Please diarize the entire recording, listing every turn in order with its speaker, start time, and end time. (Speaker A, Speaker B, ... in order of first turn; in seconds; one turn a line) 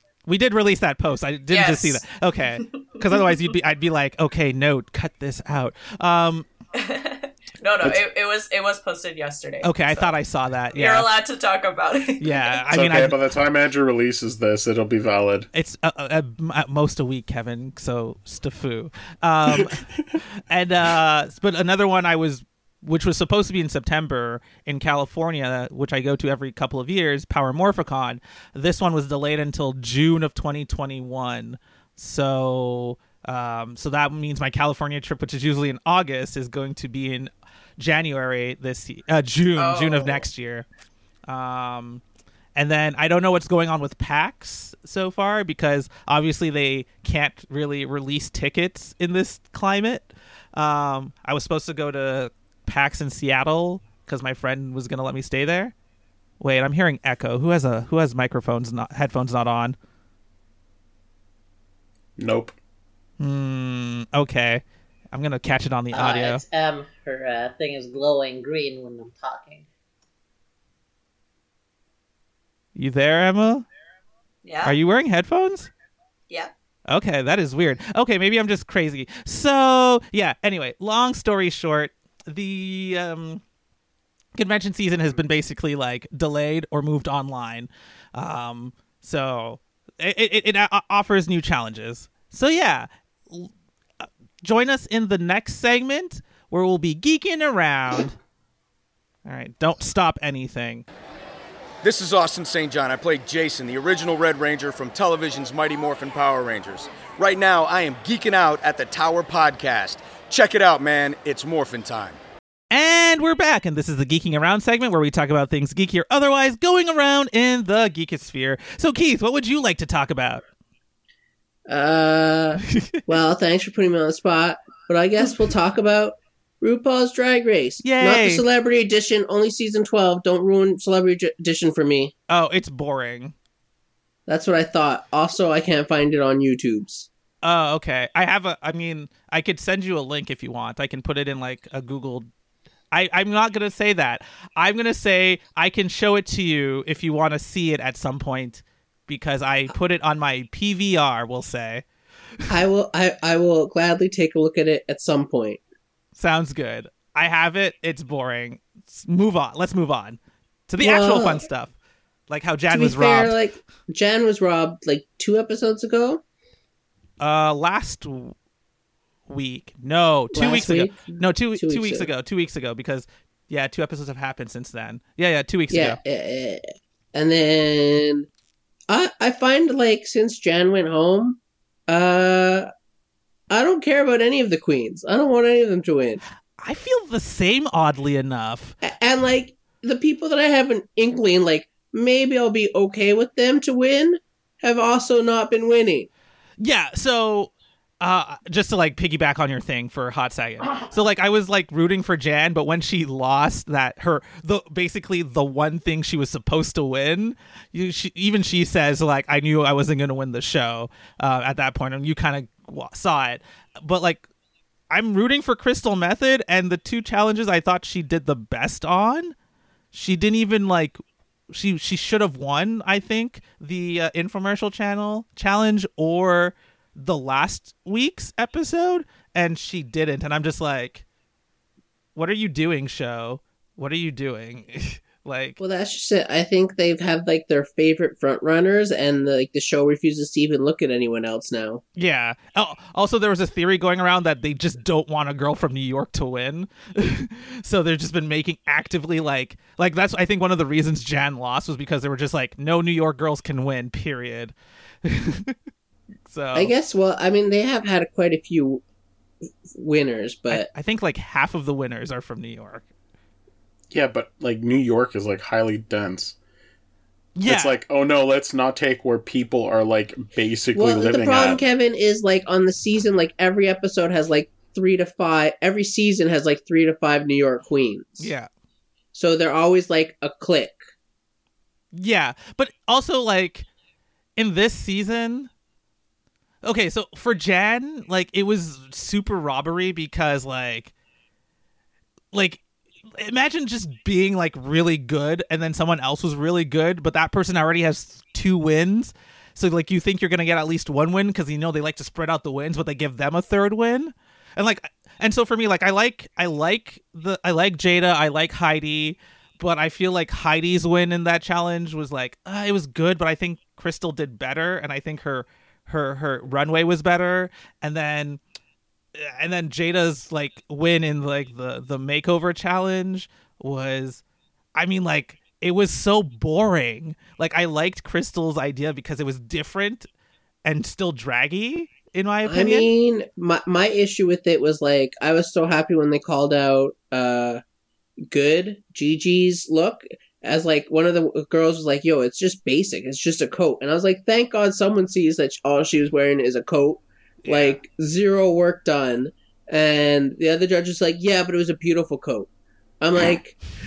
Speaker A: 0.3-6.5
Speaker B: 1.5-2.0
Speaker B: 2.6-3.4
Speaker B: 6.7-10.1
Speaker A: 9.6-11.1
Speaker B: 10.7-12.7
Speaker A: 12.2-13.2
Speaker C: 12.7-15.5
Speaker A: 15.5-40.7
Speaker B: 39.6-40.2
Speaker A: 41.3-42.0
Speaker A: 42.6-55.7
Speaker A: 56.4-59.8
Speaker C: 62.2-62.5
Speaker A: 63.2-66.4
Speaker D: 65.9-69.7
Speaker A: 72.8-73.7
Speaker B: 74.4-74.8
Speaker A: 74.6-75.7
Speaker A: 76.9-83.4
Speaker A: 84.4-98.2
Speaker A: 99.2-100.9
Speaker E: 101.8-112.2
Speaker A: 112.7-120.4
Speaker F: 121.7-132.1
Speaker A: 127.8-128.4
Speaker A: 132.3-133.3
Speaker F: 134.3-137.1
Speaker A: 137.4-142.3
Speaker A: 142.9-151.8
Speaker F: 152.5-155.6
Speaker A: 156.2-161.7
Speaker F: 160.8-161.5
Speaker A: 162.3-163.4
Speaker F: 162.7-166.2
Speaker A: 167.2-168.3
Speaker A: 169.3-176.0
Speaker F: 170.3-172.1
Speaker F: 175.7-176.6
Speaker F: 177.1-178.3
Speaker F: 178.9-182.7
Speaker F: 183.5-186.2
Speaker A: 186.6-188.8
Speaker F: 188.8-196.1
Speaker A: 196.6-214.3
Speaker A: 214.9-219.3
Speaker A: 219.9-231.0
Speaker A: 232.2-235.6
Speaker F: 235.6-241.8
Speaker A: 242.0-255.6
Speaker A: 256.3-256.7
Speaker F: 256.5-258.8
Speaker F: 259.7-260.7
Speaker A: 260.5-262.9
Speaker C: 263.9-266.4
Speaker A: 267.4-267.8
Speaker C: 267.5-271.6
Speaker F: 270.8-278.3
Speaker A: 278.2-278.5
Speaker F: 279.1-280.8
Speaker A: 281.9-283.7
Speaker A: 284.4-285.5
Speaker A: 286.6-290.9
Speaker A: 292.3-292.6
Speaker A: 293.1-318.4
Speaker A: 319.1-324.2
Speaker A: 324.8-330.1
Speaker A: 330.6-332.9
Speaker F: 332.4-337.6
Speaker F: 338.3-352.5
Speaker A: 347.4-347.8
Speaker F: 353.0-353.6